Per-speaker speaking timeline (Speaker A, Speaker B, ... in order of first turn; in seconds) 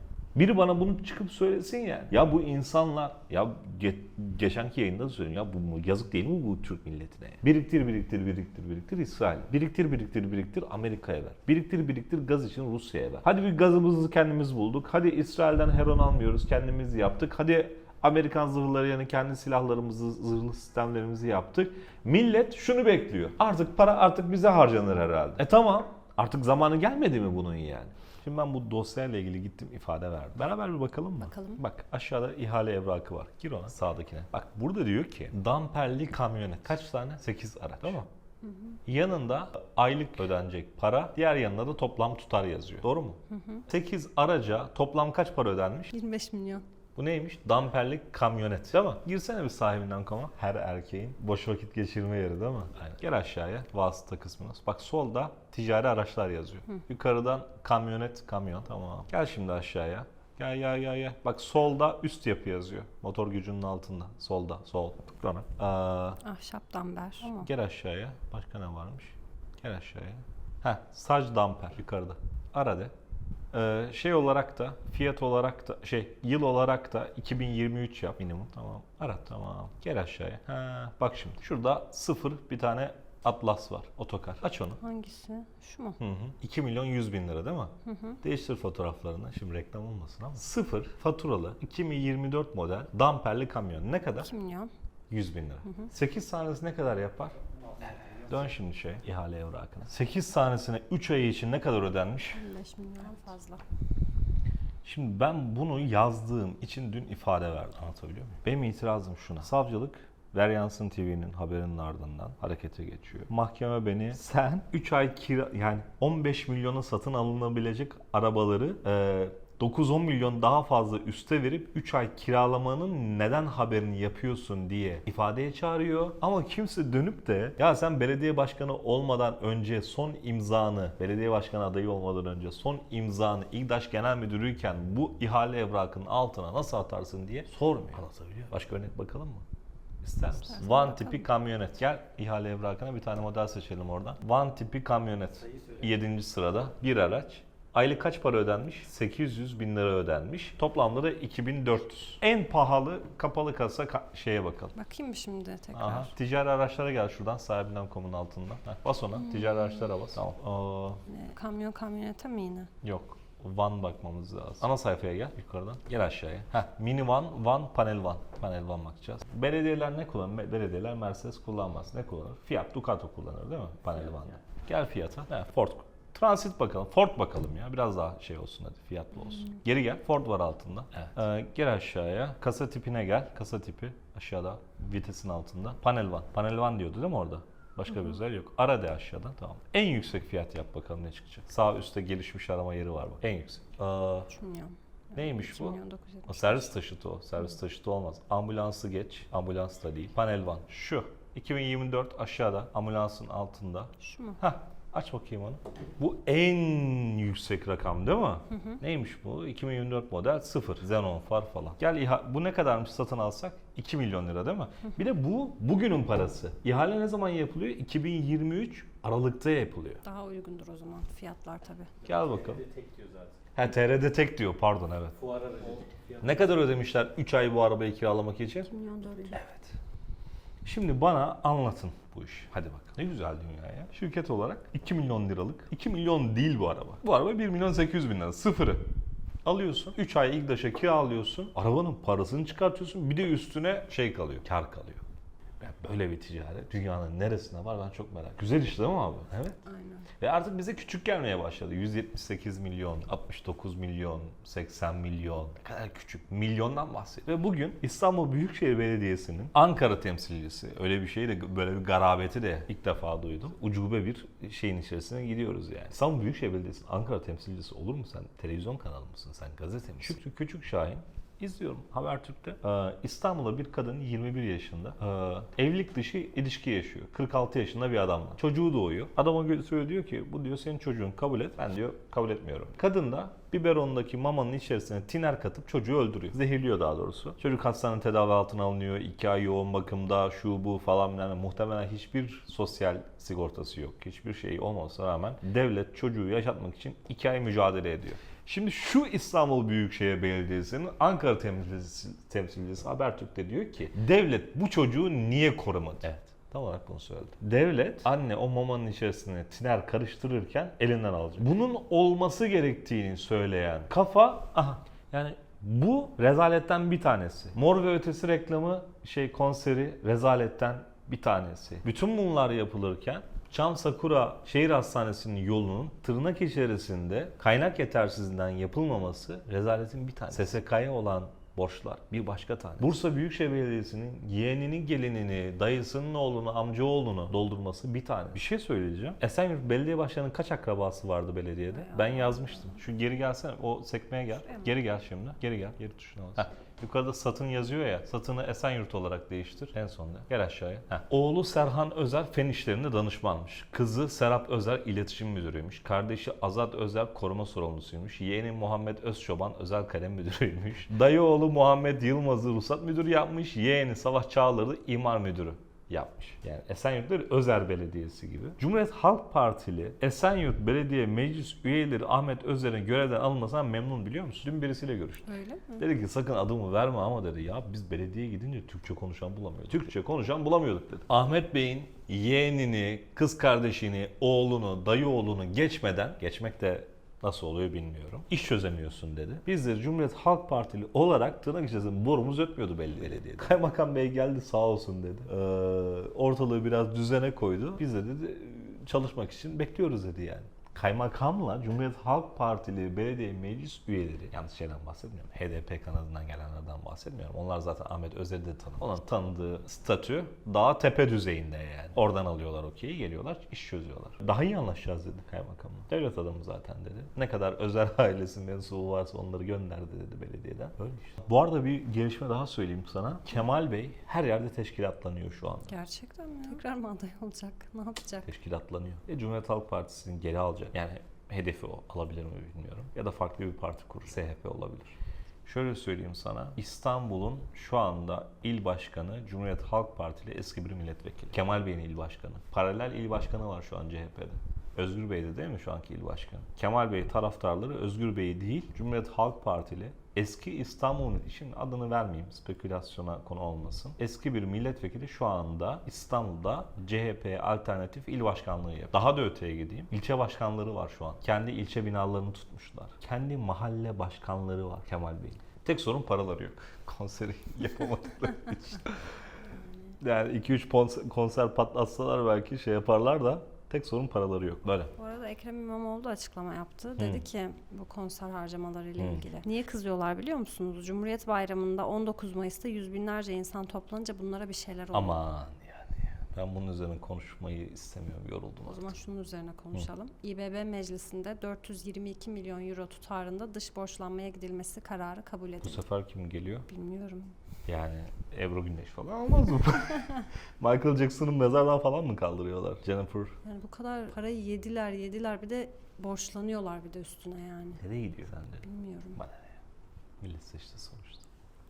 Speaker A: 0.3-38.1, 38.9-45.9, 47.0-66.2, 67.2-72.9, 73.5-84.8, 86.0-94.3, 95.1-97.3, 98.2-102.4, 104.8-139.4, 140.0-154.7, 155.7-161.0, 162.8-194.3, 195.2-220.0, 222.0-222.6, 223.5-225.2, 226.2-228.7, 229.3-229.7, 230.6-238.8, 239.4-245.0, 245.6-249.6, 250.2-425.7, 428.2-469.0, 470.0-474.9, 477.0-477.2, 479.0-479.2, 484.9-488.9, 495.6-496.6, 497.7-503.4, 507.8-508.6, 509.2-509.5, 510.2-511.2
Speaker B: 31.2-31.6, 38.4-38.8, 43.3-43.6, 45.9-46.6, 66.2-67.5, 84.8-86.0, 87.8-88.2, 94.2-94.7, 102.3-103.6, 140.3-141.3, 154.7-156.1, 159.2-159.9, 161.1-162.7, 194.3-196.7, 204.0-204.4, 208.5-208.8, 220.0-221.9, 228.7-229.4, 249.6-250.1, 341.7-342.8, 344.4-344.8, 375.3-375.9, 425.7-428.3, 474.9-485.2, 488.6-495.9, 496.7-497.3, 503.4-507.8, 508.6-509.2
Speaker C: 222.1-223.3, 225.3-226.2